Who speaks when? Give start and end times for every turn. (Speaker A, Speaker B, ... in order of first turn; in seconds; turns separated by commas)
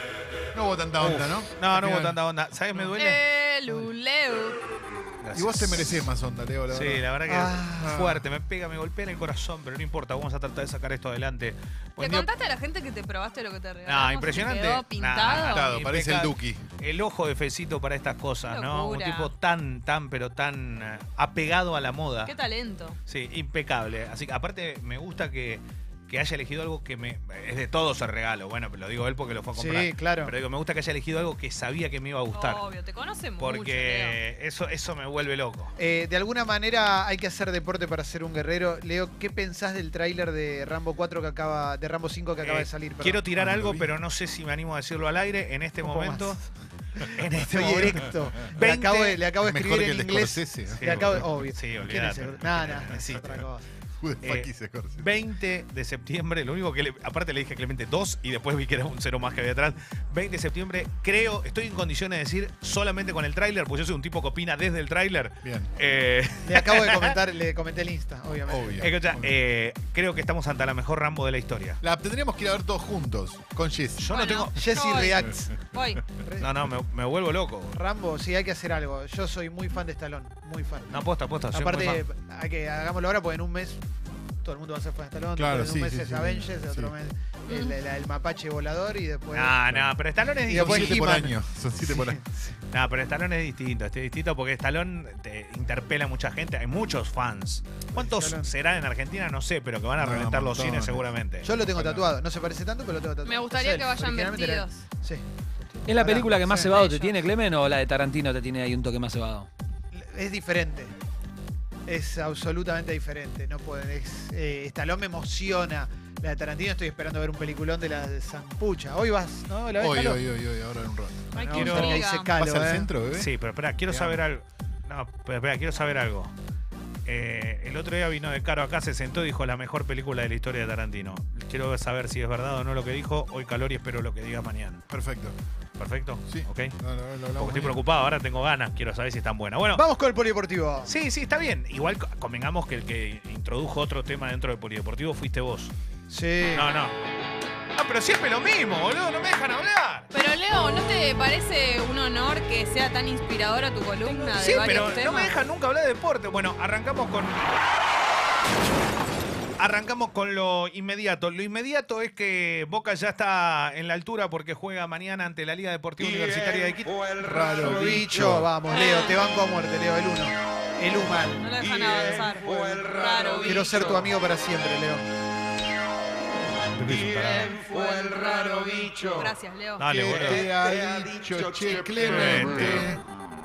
Speaker A: 0.5-2.2, Speaker B: 1.0-3.2, Speaker C: 3.0-4.6, Speaker B: 5.2-6.1, Speaker A: 5.3-7.0, Speaker B: 6.7-12.3, Speaker D: 7.2-8.2, Speaker C: 12.0-15.7, Speaker B: 13.8-22.3, Speaker A: 15.3-16.6, Speaker C: 18.4-19.3, Speaker C: 22.2-23.0, Speaker B: 23.1-32.6, Speaker D: 29.5-30.3, Speaker C: 32.3-34.2, Speaker B: 33.4-35.7, Speaker D: 35.8-43.7, Speaker B: 42.4-46.4, Speaker A: 43.4-43.8, Speaker D: 45.8-46.4, Speaker D: 47.0-53.7, Speaker B: 47.1-49.2, Speaker A: 49.4-51.2, Speaker B: 50.7-53.4, Speaker A: 54.0-55.1, Speaker B: 54.2-67.1, Speaker A: 65.4-65.7, Speaker D: 66.4-68.9, Speaker A: 68.4-69.3, Speaker B: 68.8-71.8, Speaker A: 71.8-74.2, Speaker B: 74.0-74.7, Speaker C: 74.1-76.0, Speaker D: 74.5-75.6, Speaker D: 76.2-76.5, Speaker B: 76.4-77.8, Speaker D: 77.7-83.8, Speaker B: 80.9-82.0, Speaker D: 84.4-89.6, Speaker A: 85.3-86.9, Speaker B: 89.3-91.0, Speaker A: 89.7-89.9, Speaker D: 90.5-92.6, Speaker A: 90.5-92.2, Speaker B: 92.7-101.5, Speaker D: 97.9-98.5, Speaker A: 100.0-102.1, Speaker D: 101.4-106.8, Speaker C: 103.2-104.8, Speaker E: 105.8-109.5, Speaker C: 106.7-107.2, Speaker D: 109.9-110.9, Speaker D: 111.9-120.2, Speaker A: 119.8-123.3, Speaker C: 121.3-122.3, Speaker D: 121.4-122.9, Speaker B: 121.5-122.0, Speaker B: 123.1-126.3, Speaker D: 123.9-124.2, Speaker B: 127.0-134.8, Speaker A: 134.9-135.3, Speaker B: 135.8-136.7, Speaker A: 136.3-137.8, Speaker B: 137.4-139.8, Speaker D: 139.7-140.9, Speaker B: 140.8-145.7, Speaker D: 146.1-146.7, Speaker B: 146.5-147.0, Speaker B: 147.8-150.1, Speaker C: 150.1-155.4, Speaker B: 154.3-157.5, Speaker B: 159.6-167.3, Speaker A: 167.2-168.5, Speaker D: 167.4-171.4, Speaker C: 168.7-169.2, Speaker C: 171.4-173.8, Speaker D: 173.4-175.1, Speaker B: 176.8-177.7, Speaker C: 177.4-180.2, Speaker A: 178.7-179.3, Speaker B: 179.8-180.5, Speaker A: 180.0-183.0, Speaker B: 182.0-182.9